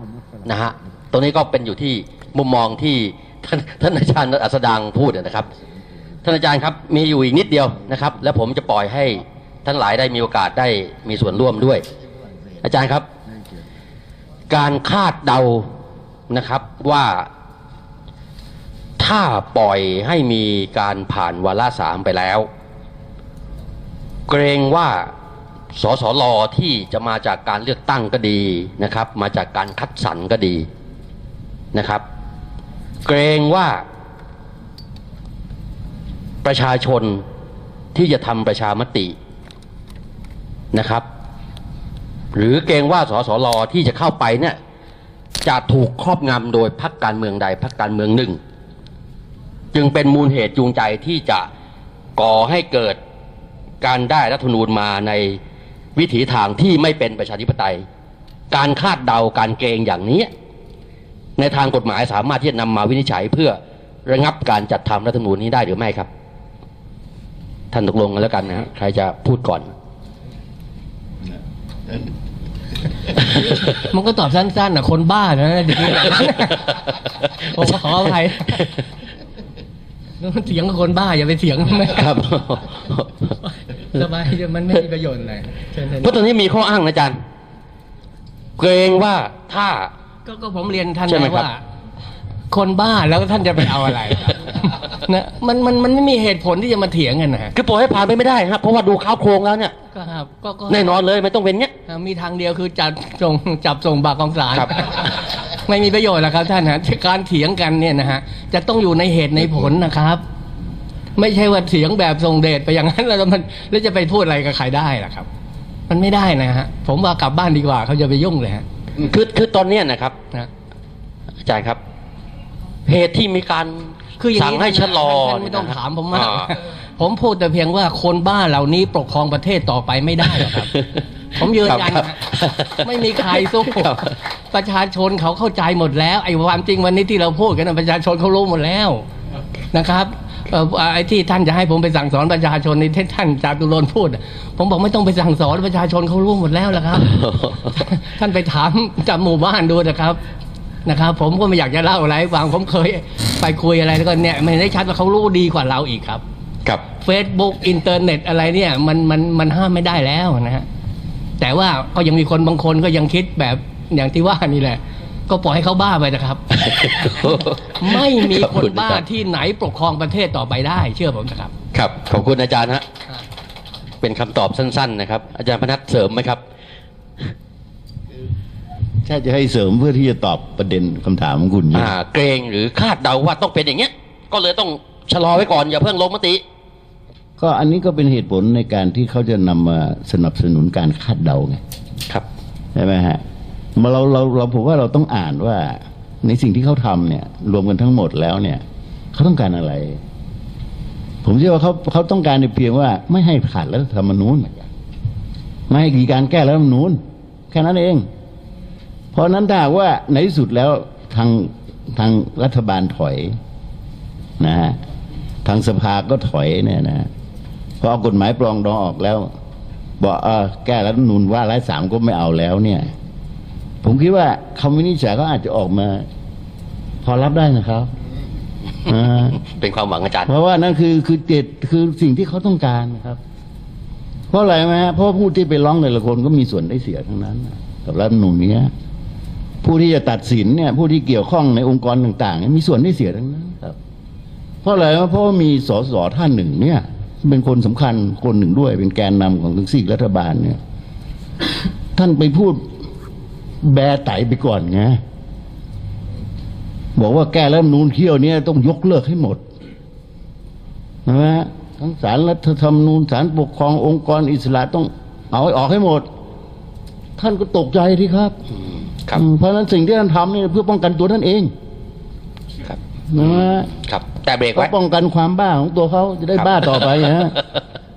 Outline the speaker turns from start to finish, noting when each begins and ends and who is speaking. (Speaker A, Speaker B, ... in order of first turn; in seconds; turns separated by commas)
Speaker A: 0.4-5.5, Speaker A: 6.2-11.8, Speaker A: 12.6-13.1, Speaker A: 14.5-15.7, Speaker A: 16.3-17.3, Speaker A: 19.0-22.5, Speaker A: 24.3-25.1, Speaker A: 25.7-30.6, Speaker A: 31.7-32.0, Speaker A: 33.0-33.8, Speaker A: 36.4-37.2, Speaker A: 37.9-39.1, Speaker A: 40.7-41.0, Speaker A: 42.3-44.6, Speaker A: 45.4-48.4, Speaker A: 49.7-51.5, Speaker A: 52.2-53.0, Speaker A: 53.8-55.4, Speaker A: 56.0-57.8, Speaker A: 58.5-60.3, Speaker A: 61.4-66.1, Speaker A: 67.7-69.7, Speaker B: 73.2-78.7, Speaker A: 77.4-78.8, Speaker B: 80.2-82.1, Speaker A: 81.9-83.3, Speaker B: 83.5-86.2, Speaker A: 86.0-87.2, Speaker A: 88.6-89.9, Speaker B: 90.2-91.6, Speaker A: 91.0-91.5, Speaker B: 92.5-97.5, Speaker A: 97.5-99.7, Speaker B: 99.9-101.0, Speaker A: 100.7-101.7, Speaker B: 101.9-110.2, Speaker B: 111.2-115.3, Speaker B: 115.9-118.6, Speaker A: 119.0-120.2, Speaker A: 121.4-121.8, Speaker A: 122.8-126.5, Speaker B: 124.2-130.7, Speaker A: 130.3-131.0, Speaker B: 131.3-132.2, Speaker A: 131.7-134.1, Speaker B: 132.8-139.0, Speaker B: 139.7-150.2, Speaker A: 147.0-147.8, Speaker B: 150.8-156.2, Speaker B: 157.0-160.7, Speaker B: 161.4-166.4, Speaker A: 166.5-169.0, Speaker B: 167.0-171.5, Speaker A: 171.7-172.8, Speaker A: 174.0-176.4, Speaker C: 179.0-181.9, Speaker A: 181.7-186.4, Speaker C: 187.4-191.6, Speaker C: 192.7-193.2, Speaker C: 193.8-200.0, Speaker C: 201.2-204.7, Speaker C: 205.7-208.1, Speaker C: 209.1-213.3, Speaker C: 214.4-214.8, Speaker C: 215.4-217.1, Speaker C: 217.8-219.3, Speaker C: 220.0-222.9, Speaker C: 223.8-226.1, Speaker C: 227.0-227.9, Speaker C: 228.8-229.4, Speaker A: 229.4-230.3, Speaker C: 230.3-233.2, Speaker C: 234.3-238.7, Speaker C: 239.6-243.8, Speaker C: 244.6-250.6, Speaker C: 251.9-252.7, Speaker C: 253.6-255.0, Speaker C: 256.9-259.4, Speaker C: 261.1-266.1, Speaker C: 267.2-268.3, Speaker A: 269.0-269.2, Speaker C: 269.1-271.5, Speaker A: 272.6-274.7, Speaker C: 273.1-273.7, Speaker C: 274.5-277.4, Speaker A: 276.3-277.6